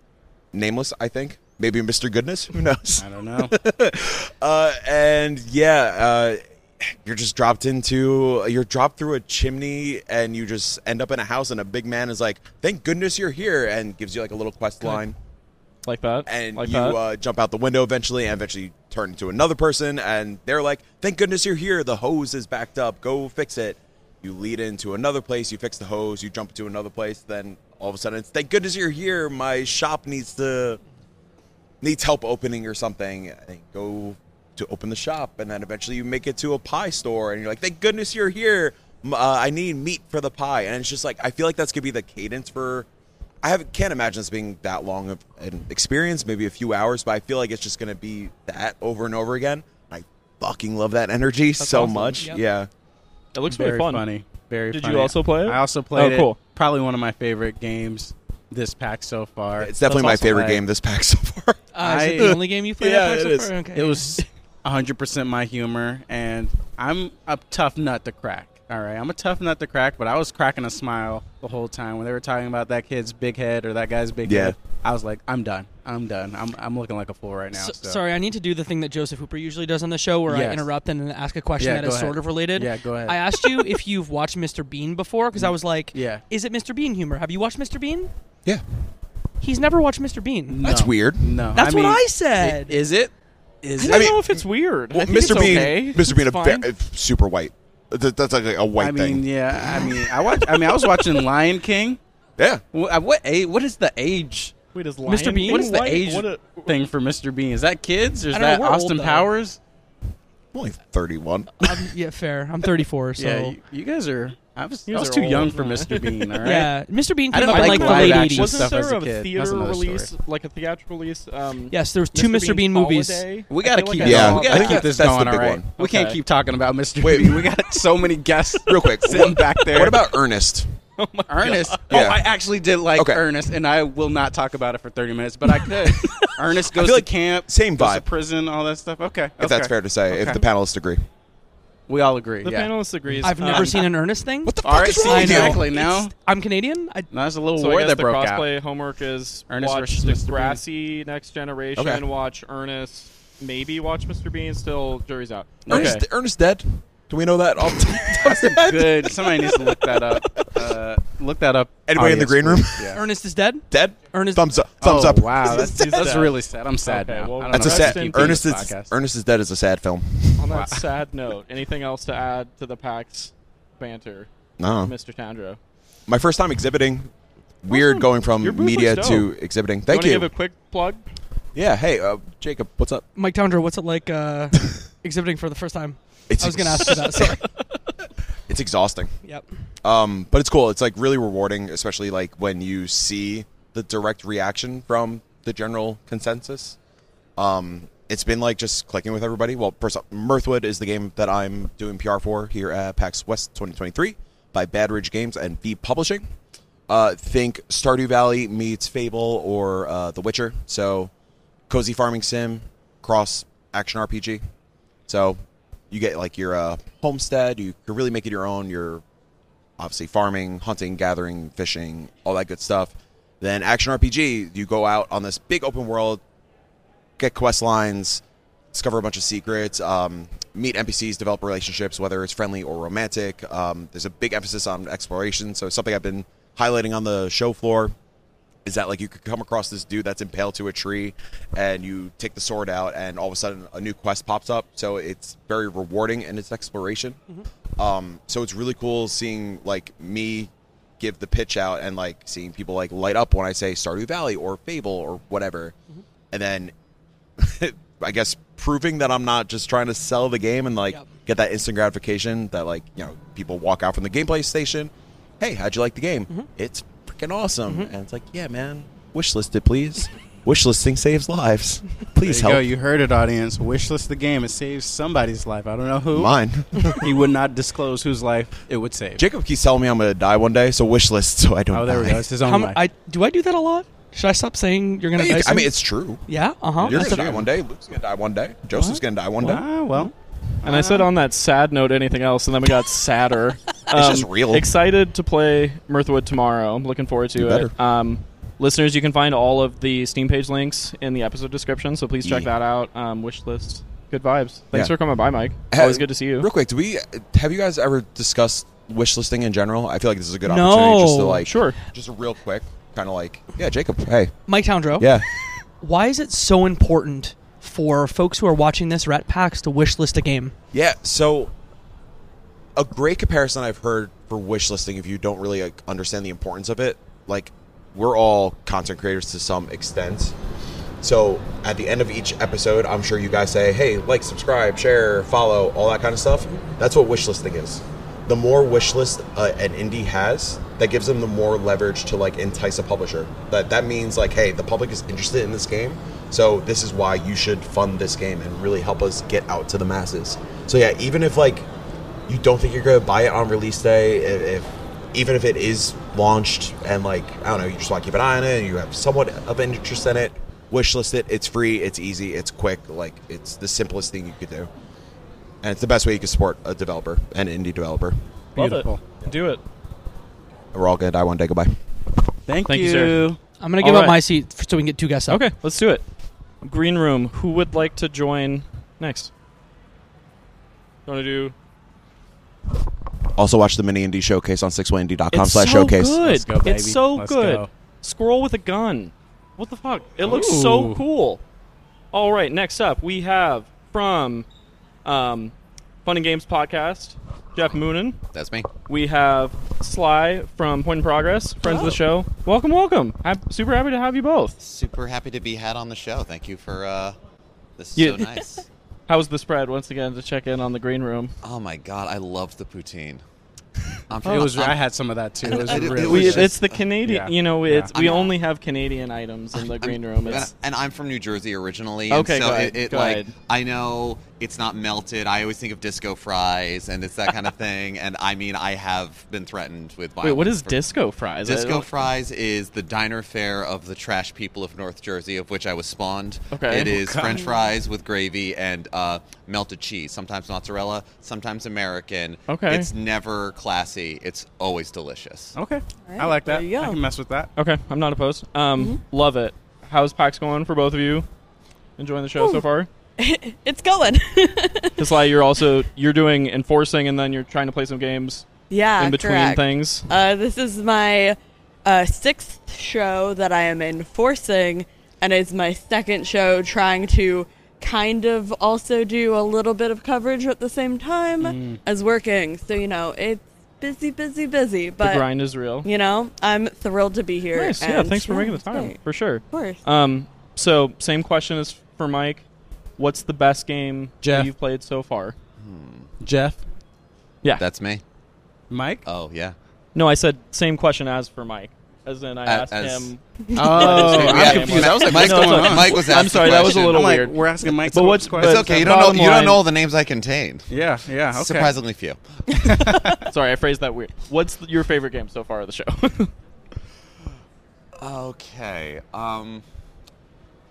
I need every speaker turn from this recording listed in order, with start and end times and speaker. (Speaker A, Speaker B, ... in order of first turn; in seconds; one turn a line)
Speaker A: 0.5-15.2
Speaker B: 3.0-3.5
Speaker C: 15.8-17.0
Speaker A: 16.3-30.8
Speaker A: 31.8-42.9
Speaker A: 43.4-52.7
Speaker C: 51.6-52.3
Speaker C: 53.3-54.0
Speaker B: 53.5-60.6
Speaker C: 54.7-56.4
Speaker A: 59.6-63.6
Speaker D: 61.7-64.2
Speaker B: 61.8-62.4
Speaker B: 63.7-78.0
Speaker A: 74.2-74.6
Speaker D: 77.5-88.1
Speaker B: 80.3-80.7
Speaker B: 81.6-83.2
Speaker B: 85.3-86.2
Speaker D: 89.4-90.6
Speaker B: 90.5-94.2
Speaker A: 90.6-91.6
Speaker D: 91.5-92.8
Speaker C: 93.8-96.6
Speaker A: 93.9-94.2
Speaker A: 94.9-100.5
Speaker D: 95.2-96.6
Speaker B: 98.8-102.0
Speaker B: 102.7-104.5
Speaker C: 104.7-106.8
Speaker D: 105.0-105.8
Speaker B: 105.5-109.6
Speaker D: 108.3-109.3
Speaker A: 110.5-111.9
Speaker D: 111.6-113.6
Speaker B: 113.2-116.8
Speaker C: 114.9-116.6
Speaker D: 116.4-118.8
Speaker B: 117.3-120.1
Speaker C: 117.5-124.8
Speaker D: 121.7-123.4
Speaker B: 123.5-130.0
Speaker A: 124.0-125.7
Speaker C: 125.8-126.2
Speaker A: 127.0-127.6
Speaker A: 128.7-130.7
Speaker C: 131.0-132.1
Speaker B: 131.3-140.4
Speaker A: 131.9-132.2
Speaker A: 132.9-133.3
Speaker A: 136.0-138.1
Speaker A: 139.4-141.0
Speaker B: 141.9-143.8
Speaker C: 142.4-143.9
Speaker D: 143.2-147.1
Speaker A: 144.4-145.7
Speaker B: 144.6-146.1
Speaker B: 147.1-148.5
Speaker C: 147.6-156.1
Speaker B: 149.5-150.6
Speaker A: 151.8-152.0
Speaker B: 155.7-156.0
Speaker A: 155.7-160.6
Speaker B: 158.2-163.0
Speaker A: 161.9-163.0
Speaker D: 162.9-164.6
Speaker A: 163.7-166.2
Speaker B: 164.8-168.9
Speaker C: 165.5-168.4
Speaker A: 167.5-170.6
Speaker C: 170.4-175.6
Speaker B: 170.5-170.8
Speaker A: 174.6-174.9
Speaker A: 176.1-177.1
Speaker A: 177.6-180.3
Speaker C: 177.7-179.3
Speaker C: 179.9-181.0
Speaker A: 181.6-183.1
Speaker D: 183.2-187.5
Speaker A: 186.3-187.4
Speaker A: 188.5-189.1
Speaker A: 189.8-196.8
Speaker A: 197.4-206.3
Speaker A: 206.9-211.1
Speaker A: 211.7-214.4
Speaker A: 215.1-215.4
Speaker A: 215.9-219.0
Speaker A: 219.8-226.2
Speaker A: 227.2-237.9
Speaker A: 238.7-247.2
Speaker A: 247.8-255.8
Speaker A: 256.3-256.7
Speaker A: 257.4-272.7
Speaker B: 272.2-276.4
Speaker A: 276.1-277.2
Speaker B: 277.0-279.2
Speaker A: 279.2-282.3
Speaker B: 281.7-282.8
Speaker D: 282.4-287.2
Speaker A: 285.1-286.2
Speaker B: 286.8-287.5
Speaker A: 286.8-289.7
Speaker D: 288.7-289.0
Speaker B: 289.4-290.1
Speaker B: 290.6-291.1
Speaker C: 290.6-306.5
Speaker A: 293.9-294.7
Speaker A: 297.4-297.7
Speaker A: 302.2-302.5
Speaker A: 305.7-314.4
Speaker D: 310.4-311.4
Speaker C: 311.4-311.8
Speaker D: 314.5-315.2
Speaker A: 315.0-315.3
Speaker D: 315.8-320.6
Speaker A: 320.7-321.5
Speaker A: 322.8-330.4
Speaker A: 331.0-351.7
Speaker A: 352.3-364.7
Speaker A: 365.6-368.2
Speaker B: 368.6-369.0
Speaker C: 368.6-369.6
Speaker A: 370.7-371.8
Speaker B: 372.5-373.4
Speaker C: 372.7-373.3
Speaker D: 373.6-375.4
Speaker C: 373.8-374.2
Speaker C: 375.3-376.1
Speaker C: 376.6-379.3
Speaker C: 381.1-381.5
Speaker A: 383.3-386.2
Speaker C: 385.3-391.4
Speaker B: 386.2-387.7
Speaker B: 390.2-391.0
Speaker C: 392.1-394.5
Speaker C: 395.1-395.5
Speaker C: 396.1-398.2
Speaker E: 398.3-398.7
Speaker C: 398.9-404.6
Speaker F: 401.6-402.0
Speaker E: 404.6-407.2
Speaker E: 407.8-408.7
Speaker C: 408.0-408.3
Speaker C: 409.1-411.3
Speaker E: 411.4-413.2
Speaker E: 414.1-414.8
Speaker B: 414.2-417.9
Speaker E: 415.4-416.8
Speaker C: 415.7-420.5
Speaker E: 417.9-418.3
Speaker E: 419.5-430.8
Speaker C: 422.1-423.3
Speaker C: 430.2-431.9
Speaker E: 431.4-445.6
Speaker C: 436.5-437.0
Speaker B: 436.8-437.4
Speaker F: 437.2-437.6
Speaker C: 442.5-442.9
Speaker B: 445.6-447.5
Speaker F: 446.1-447.0
Speaker C: 447.6-451.3
Speaker C: 452.0-452.9
Speaker F: 452.4-452.6
Speaker F: 453.2-455.1
Speaker C: 455.0-458.5
Speaker F: 458.7-475.3
Speaker C: 459.0-460.1
Speaker B: 471.4-471.8
Speaker C: 475.0-475.9
Speaker F: 475.8-479.0
Speaker C: 477.5-482.4
Speaker F: 479.5-479.8
Speaker C: 483.0-485.4
Speaker B: 484.2-484.5
Speaker E: 485.6-486.1
Speaker B: 486.2-486.6
Speaker E: 487.6-488.0
Speaker B: 488.7-489.0
Speaker E: 489.1-489.6
Speaker C: 489.9-499.6
Speaker E: 492.5-493.1
Speaker F: 493.6-493.9
Speaker B: 493.6-499.1
Speaker E: 493.7-497.1
Speaker E: 498.4-500.7
Speaker B: 500.7-501.7
Speaker E: 501.3-502.2
Speaker B: 502.8-503.2
Speaker C: 502.9-506.3
Speaker E: 508.0-509.6